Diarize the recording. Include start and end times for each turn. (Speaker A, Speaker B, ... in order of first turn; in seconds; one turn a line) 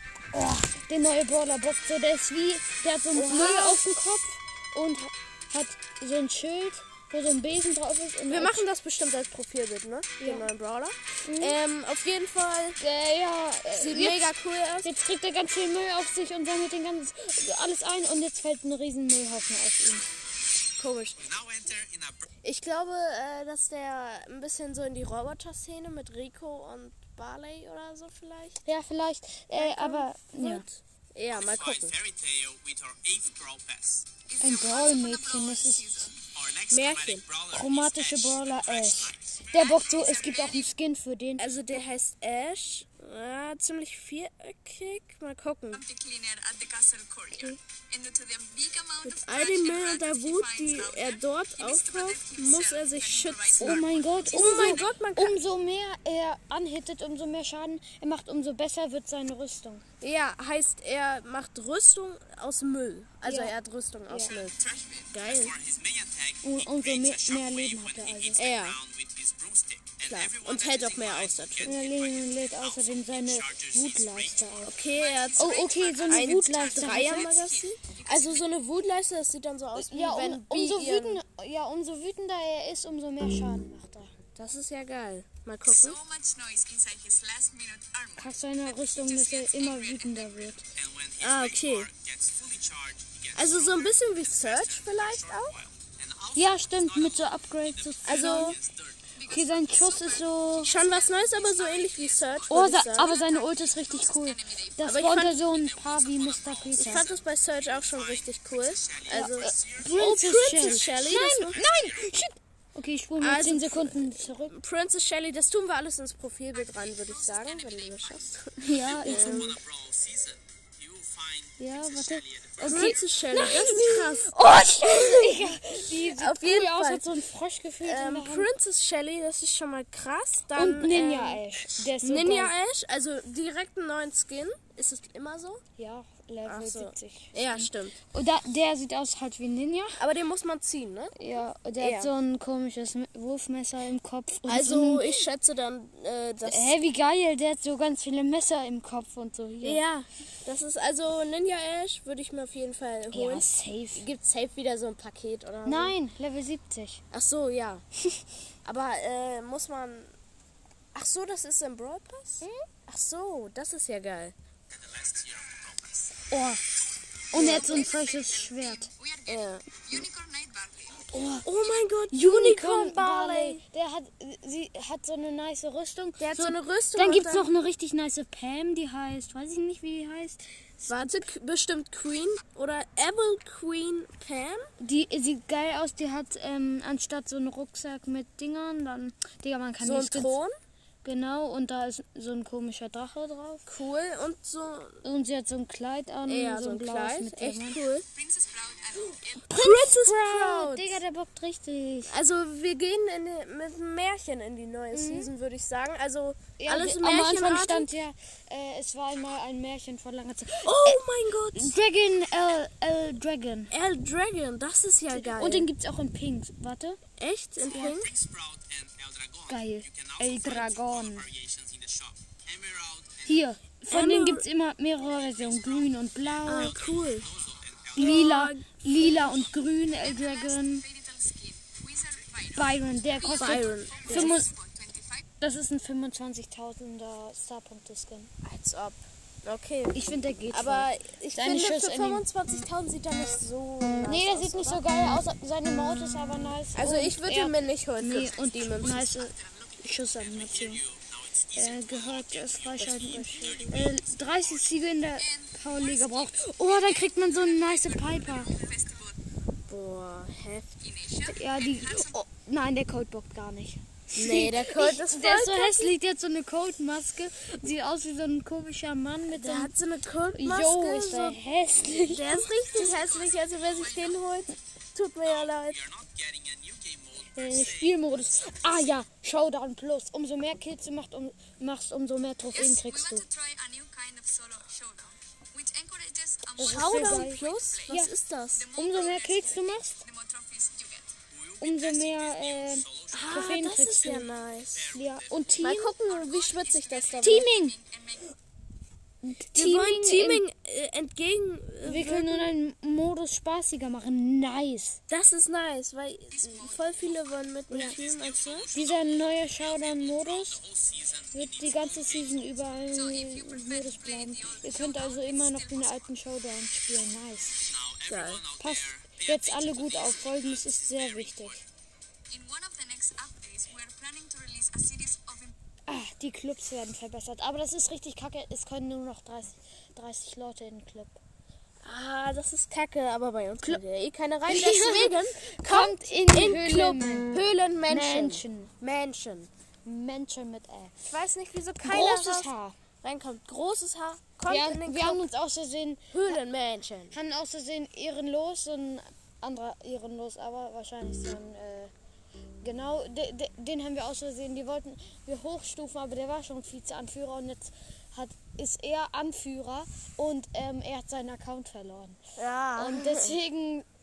Speaker A: 0.3-8.6
Speaker B: 3.1-3.9
Speaker B: 8.3-12.8
Speaker A: 11.2-11.6
Speaker A: 12.8-20.1
Speaker B: 13.7-14.9
Speaker B: 20.8-21.3
Speaker C: 21.2-22.2
Speaker B: 22.4-28.6
Speaker A: 28.6-30.7
Speaker B: 29.5-31.9
Speaker C: 31.3-34.1
Speaker D: 34.3-36.1
Speaker A: 34.4-36.1
Speaker C: 36.3-39.3
Speaker B: 36.7-37.2
Speaker A: 37.5-41.7
Speaker D: 39.5-40.7
Speaker B: 41.4-45.8
Speaker D: 45.7-54.7
Speaker B: 49.0-55.4
Speaker A: 53.6-59.8
Speaker B: 60.0-64.6
Speaker A: 63.2-63.5
Speaker A: 64.1-64.3
Speaker C: 64.4-74.7
Speaker B: 65.1-65.5
Speaker A: 66.4-68.5
Speaker B: 68.4-68.8
Speaker B: 70.1-71.8
Speaker A: 71.6-74.8
Speaker B: 74.6-81.2
Speaker D: 75.3-78.5
Speaker A: 75.4-77.3
Speaker A: 79.8-84.2
Speaker B: 84.3-86.0
Speaker D: 85.7-90.5
Speaker A: 88.2-90.6
Speaker C: 90.8-99.0
Speaker B: 91.2-91.9
Speaker B: 93.3-95.6
Speaker A: 96.3-98.6
Speaker B: 98.0-98.6
Speaker D: 99.2-105.0
Speaker A: 99.3-100.8
Speaker B: 100.6-103.1
Speaker A: 102.5-107.1
Speaker B: 104.8-105.4
Speaker C: 105.3-109.9
Speaker B: 106.8-111.6
Speaker A: 109.1-114.5
Speaker B: 113.2-119.6
Speaker D: 116.6-118.2
Speaker A: 118.6-119.6
Speaker C: 118.9-123.1
Speaker A: 121.6-128.5
Speaker B: 122.6-127.1
Speaker B: 127.8-131.4
Speaker A: 130.5-132.6
Speaker B: 132.0-135.6
Speaker A: 135.8-140.0
Speaker B: 136.4-138.0
Speaker B: 140.0-141.2
Speaker A: 141.2-145.2
Speaker B: 141.8-142.1
Speaker B: 144.4-146.8
Speaker A: 146.4-149.8
Speaker B: 149.6-155.9
Speaker A: 153.1-154.0
Speaker A: 155.6-157.0
Speaker B: 157.1-157.8
Speaker B: 158.6-160.1
Speaker B: 160.9-164.3
Speaker A: 162.4-162.7
Speaker C: 164.8-166.1
Speaker A: 166.3-166.6
Speaker A: 167.3-168.9
Speaker B: 167.3-167.8
Speaker D: 167.6-171.0
Speaker B: 169.2-169.8
Speaker A: 171.1-171.5
Speaker B: 171.4-173.6
Speaker A: 172.1-181.1
Speaker B: 176.2-177.5
Speaker B: 180.9-184.7
Speaker A: 184.8-190.4
Speaker B: 189.8-190.6
Speaker A: 191.0-193.7
Speaker B: 193.7-195.0
Speaker A: 195.0-197.8
Speaker B: 196.2-198.1
Speaker D: 198.1-199.4
Speaker A: 199.3-202.1
Speaker B: 199.4-201.0
Speaker B: 202.1-207.9
Speaker A: 204.9-205.3
Speaker A: 206.6-211.0
Speaker B: 210.6-211.7
Speaker A: 211.5-213.7
Speaker B: 213.7-215.7
Speaker A: 215.1-217.0
Speaker B: 217.2-218.1
Speaker A: 217.7-217.9
Speaker C: 217.7-223.4
Speaker A: 219.5-221.3
Speaker A: 223.2-226.8
Speaker B: 223.9-224.4
Speaker C: 225.1-228.2
Speaker B: 226.5-227.3
Speaker A: 227.9-230.9
Speaker B: 228.0-229.2
Speaker D: 230.1-235.2
Speaker A: 232.6-234.5
Speaker B: 233.4-234.4
Speaker A: 235.4-238.3
Speaker B: 238.4-244.8
Speaker A: 239.9-242.2
Speaker A: 244.1-250.8
Speaker B: 246.7-249.1
Speaker D: 248.2-249.7
Speaker C: 250.2-254.8
Speaker A: 251.5-258.6
Speaker B: 252.8-253.8
Speaker D: 255.2-259.2
Speaker B: 259.7-260.8
Speaker D: 260.8-262.1
Speaker A: 261.3-269.7
Speaker B: 264.1-265.9
Speaker B: 269.3-271.4
Speaker A: 270.3-272.9
Speaker B: 271.9-275.8
Speaker D: 272.7-274.2
Speaker C: 275.3-278.7
Speaker A: 277.3-283.3
Speaker D: 282.5-288.1
Speaker A: 286.6-288.1
Speaker B: 286.6-288.7
Speaker D: 288.6-291.1
Speaker A: 288.8-290.0
Speaker C: 291.3-293.6
Speaker A: 291.6-294.3
Speaker B: 293.1-294.9
Speaker C: 294.8-295.5
Speaker A: 294.9-295.9
Speaker B: 295.6-297.5
Speaker D: 296.2-298.3
Speaker A: 297.2-297.8
Speaker A: 299.2-300.4
Speaker B: 299.5-302.5
Speaker A: 301.8-305.0
Speaker B: 305.1-308.7
Speaker D: 306.3-307.3
Speaker A: 307.7-308.0
Speaker C: 307.8-312.5
Speaker A: 308.7-310.6
Speaker A: 311.3-317.6
Speaker D: 313.0-316.1
Speaker C: 317.6-321.6
Speaker B: 318.1-318.4
Speaker A: 318.6-321.6
Speaker D: 322.3-325.5
Speaker A: 325.9-331.2
Speaker B: 331.8-339.5
Speaker A: 334.4-338.7
Speaker A: 339.9-340.9
Speaker B: 341.1-342.5
Speaker A: 341.8-342.8
Speaker B: 343.0-345.3
Speaker A: 344.5-346.4
Speaker B: 346.1-347.1
Speaker A: 347.1-351.9
Speaker A: 352.6-362.2
Speaker B: 362.4-363.4
Speaker A: 362.8-363.9